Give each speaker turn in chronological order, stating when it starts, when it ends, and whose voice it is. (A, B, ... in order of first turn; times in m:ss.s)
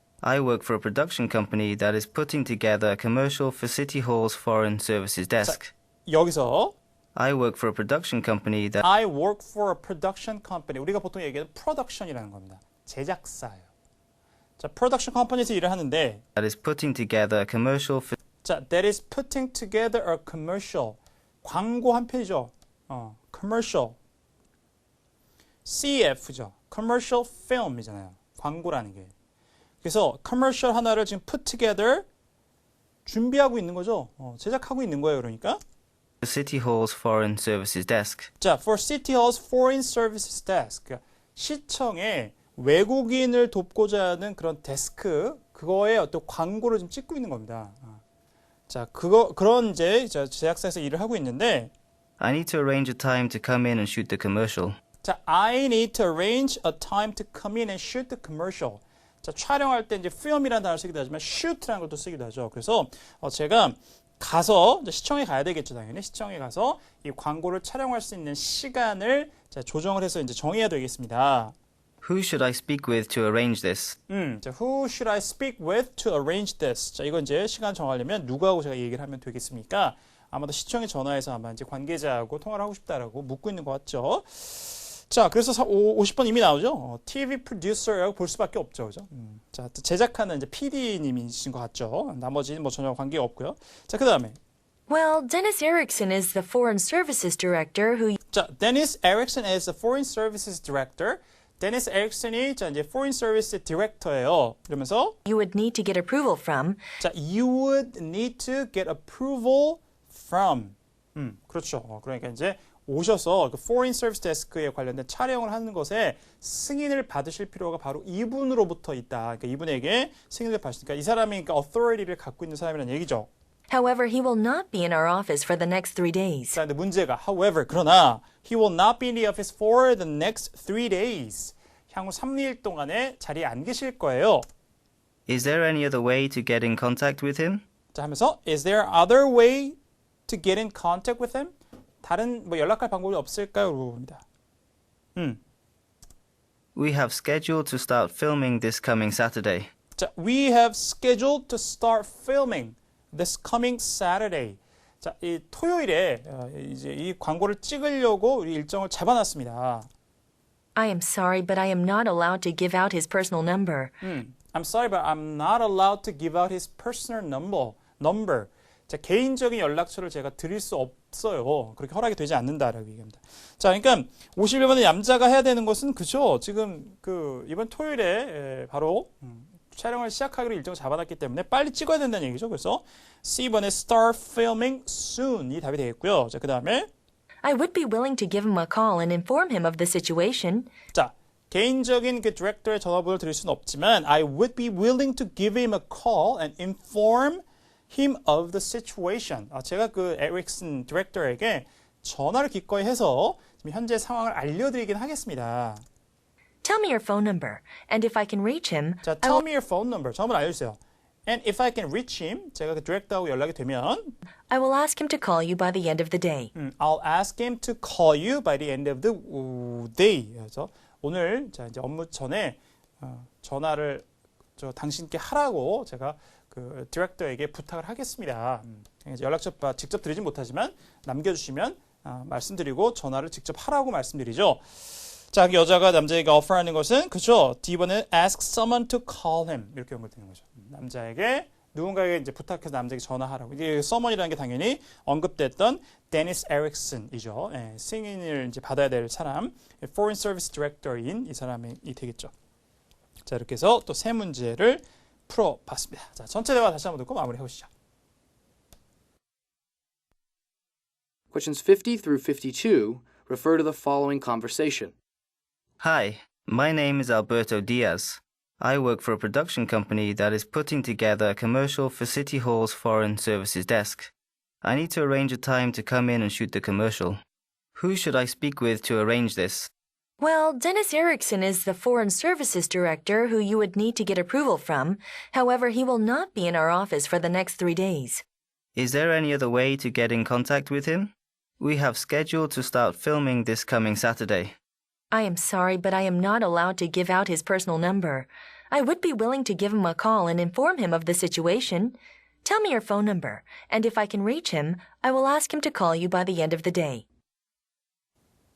0:00.2-0:05.7 A
0:05.4-0:06.8 B
0:07.1-0:08.8 A
0:08.8-0:13.7 B
0:14.6-0:16.2 B
0:16.4-0:18.2 A
0:18.4-0:24.0 B
0:25.6-0:29.1 B
0:29.8-0:32.0 B
0:33.0-0:35.6 B
0:36.2-0:38.3 A
0:38.4-0:48.0 B
0:48.7-0:51.7 B
0:52.2-0:54.8 A
0:55.0-1:11.5 B
1:12.0-1:14.0 A
1:14.1-1:34.4 B
1:34.9-1:38.2 C
1:38.3-1:45.2 B
1:45.2-1:46.8 C
1:47.0-2:03.3 B
2:03.7-2:06.6 C
2:06.5-2:14.4 B
2:15.3-2:17.6 A
2:17.9-2:24.2 B
2:25.1-2:25.4 B
2:26.7-2:29.7 A
2:30.0-2:39.9 B
2:40.8-2:44.0 C
2:44.0-3:06.9 B
3:07.4-3:10.7 C
3:10.9-3:25.8 B
3:26.6-3:29.4 C
3:29.0-3:34.1 B
3:34.5-3:36.5 C
3:36.5-3:44.0 B
3:44.6-3:54.6 B
3:55.3-4:12.3 B
4:13.2-4:17.7 B
4:21.3-4:24.9 D
4:25.8-4:34.1 A
4:34.6-4:37.2 A
4:37.7-4:39.7 A
4:40.2-4:48.2 C
4:48.8-4:54.6 A
4:55.1-5:07.0 C